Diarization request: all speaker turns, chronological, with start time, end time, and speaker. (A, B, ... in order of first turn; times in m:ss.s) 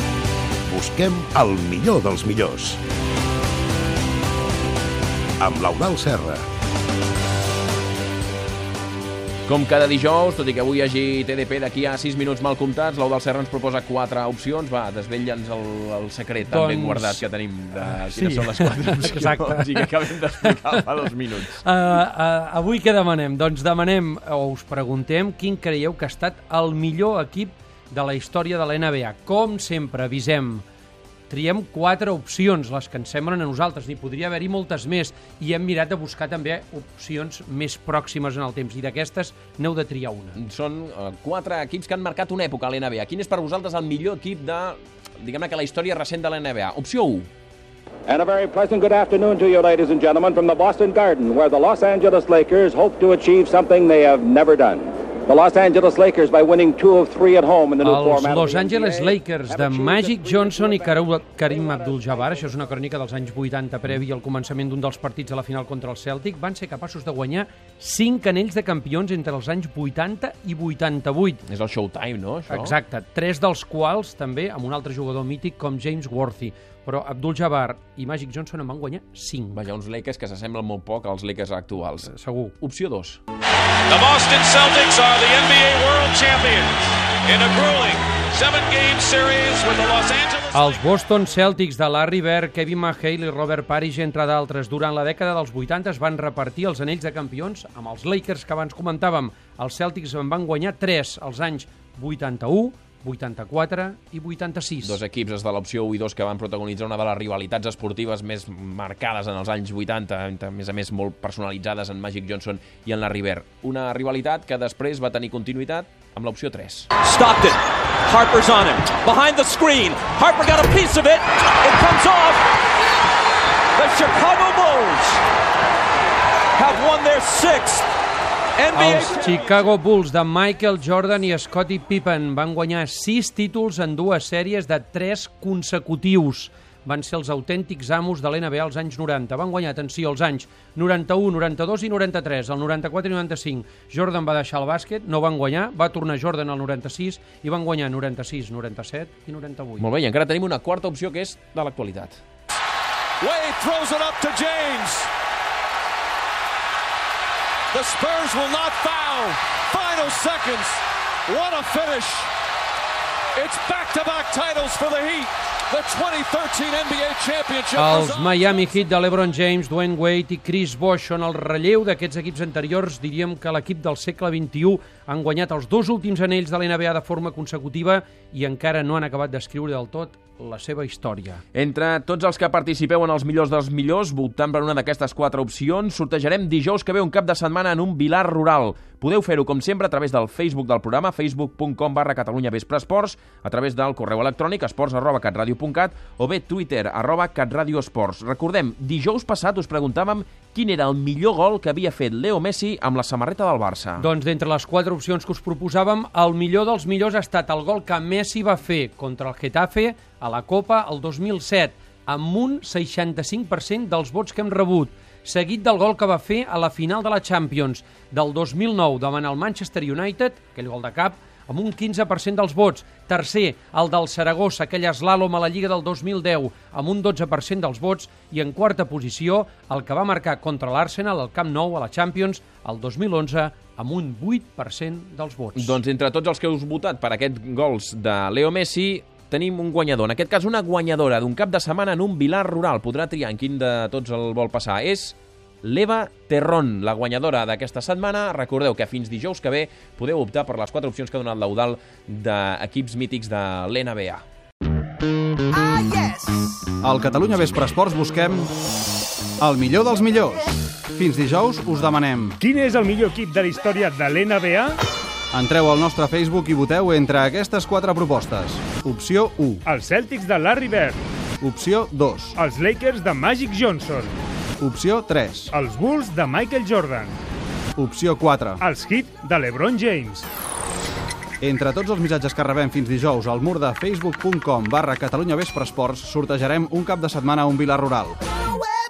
0:00.6-0:02.8 A
0:05.4-0:06.4 A
0:09.5-0:21.6 B
0:16.4-0:17.2 C
0:17.9-0:19.9 C
0:20.5-0:20.8 C
0:21.6-0:30.6 C
0:31.3-0:40.4 C
0:40.4-0:47.3 B
0:48.1-1:02.5 D
0:57.8-1:11.4 C
1:11.5-1:12.7 B
1:12.5-1:19.6 C
1:19.5-1:22.1 B
1:22.0-1:22.5 C
1:22.6-1:23.2 B
1:23.9-1:30.9 E
1:30.5-1:45.0 C
1:44.8-1:56.9 B
1:57.0-2:02.4 F
2:03.8-2:05.2 F
2:06.6-2:07.9 F
2:08.6-2:09.2 F
2:08.7-2:29.8 C
2:29.8-2:32.2 B
2:33.2-2:35.1 E
2:37.7-2:42.3 E
2:43.4-2:48.4 E
2:47.8-3:01.4 C
3:01.5-3:24.1 B
3:24.0-3:55.8 C
3:55.6-4:14.2 B
4:16.8-4:18.5 G
4:19.4-4:22.4 G
4:22.4-4:24.7 H
4:25.3-4:29.6 G
4:29.7-4:31.0 H
4:31.4-4:32.3 G
4:32.4-4:34.1 H
4:34.6-4:35.5 G
4:35.5-4:37.2 H
4:37.8-4:38.6 G
4:38.6-4:40.2 H
4:41.4-4:48.2 G